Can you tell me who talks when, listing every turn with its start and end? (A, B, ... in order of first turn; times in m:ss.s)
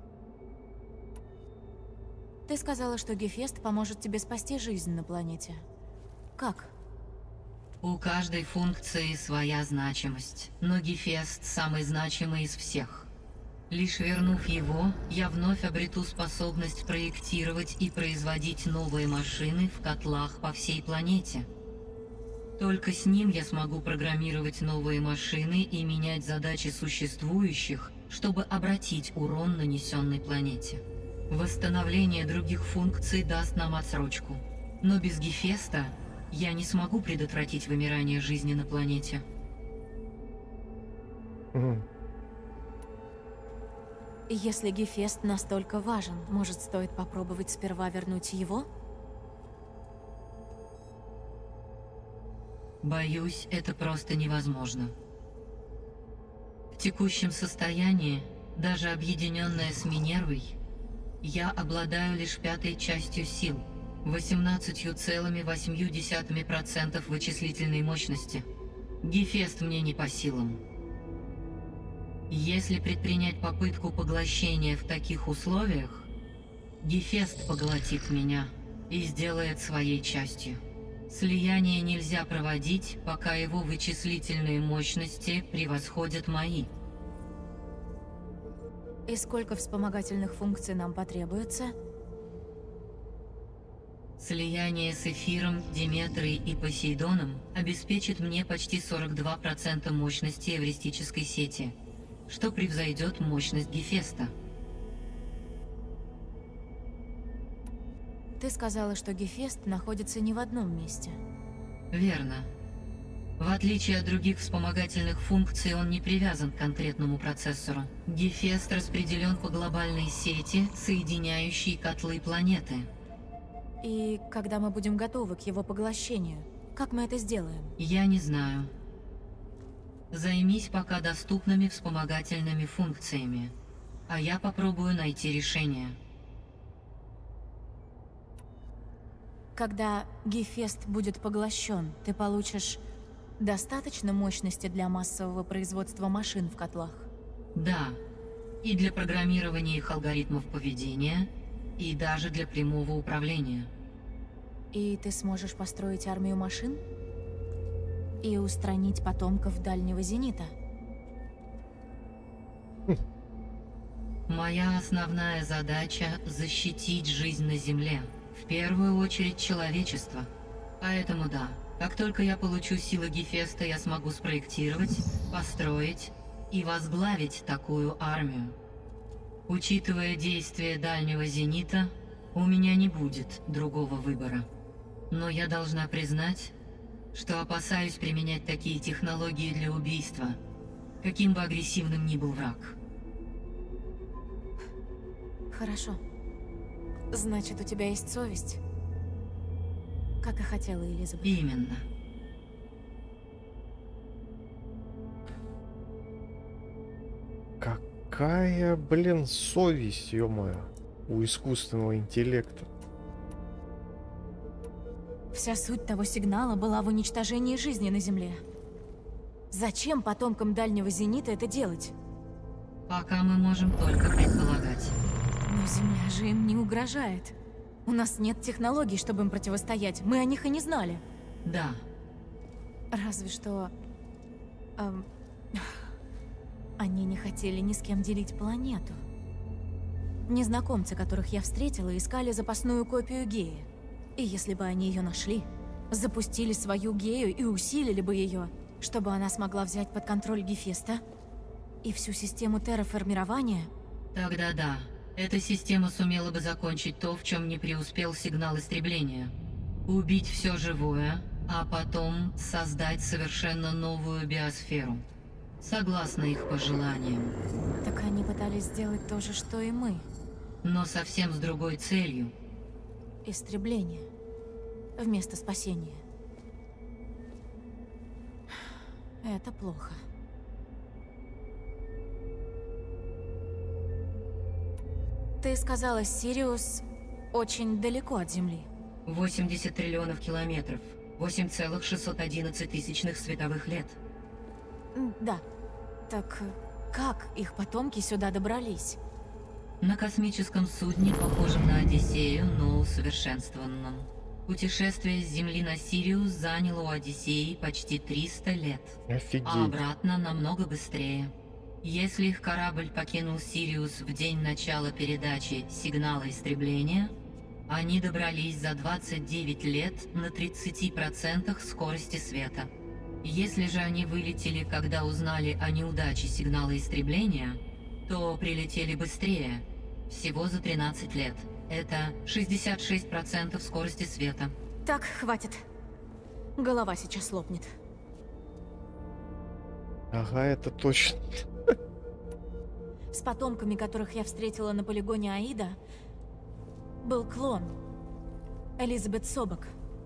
0:02.5-0:05.6 A
0:06.4-0:06.7 A
0:07.8-0:13.1 B
0:13.7-0:21.5 B
0:22.6-0:39.2 B
0:41.5-0:41.9 C
0:44.3-0:48.7 A
0:52.8-0:55.0 B
0:56.7-1:00.6 B
1:01.2-1:08.5 B
1:09.0-1:10.6 B
1:12.3-1:16.1 B
1:16.8-1:26.7 B
1:29.1-1:31.8 A
1:34.2-1:41.8 B
1:42.3-1:44.3 B
1:48.4-1:51.2 A
1:51.9-1:52.5 B
1:53.4-2:02.9 B
2:03.8-2:07.8 A
2:07.8-2:08.7 B
2:10.1-2:13.5 B
2:14.1-2:16.0 B
2:19.6-2:22.8 A
2:23.4-2:27.1 A
2:27.5-2:28.0 B
2:28.6-2:33.7 B
2:34.7-2:36.8 A
2:38.2-2:40.5 A
2:44.3-2:50.3 B
2:50.8-2:58.6 B
2:59.5-3:04.5 B
3:05.1-3:06.6 B
3:07.1-3:10.4 B
3:11.0-3:12.8 B
3:15.5-3:16.0 A
3:17.1-3:18.6 A
3:20.2-3:21.3 A
3:21.2-3:21.9 B
3:27.6-3:32.7 C
3:35.3-3:38.4 A
3:39.5-3:41.9 A
3:42.9-3:45.0 B
3:45.5-3:47.4 A
3:47.9-3:51.0 A
3:51.4-3:51.8 B
3:52.9-3:53.7 A
3:54.8-3:55.7 A
3:56.8-3:59.0 A
4:00.3-4:11.0 A
4:11.8-4:13.7 A
4:14.1-4:19.3 B
4:19.9-4:25.0 B
4:25.6-4:27.4 B
4:27.8-4:30.1 A
4:30.6-4:32.3 B
4:33.2-4:34.1 A
4:35.0-4:36.0 A
4:39.2-4:40.0 A
4:45.4-4:48.7 A
4:49.1-4:54.0 B
4:54.9-4:55.4 A
4:56.1-4:59.0 A
4:59.8-5:17.1 B
5:09.1-5:09.8 C
5:17.7-5:22.7 B
5:23.2-5:34.5 B
5:34.9-5:35.6 A
5:36.6-5:37.7 A
5:40.1-5:41.4 C
5:43.1-5:45.8 A
5:47.0-5:47.8 A
5:48.8-5:49.7 A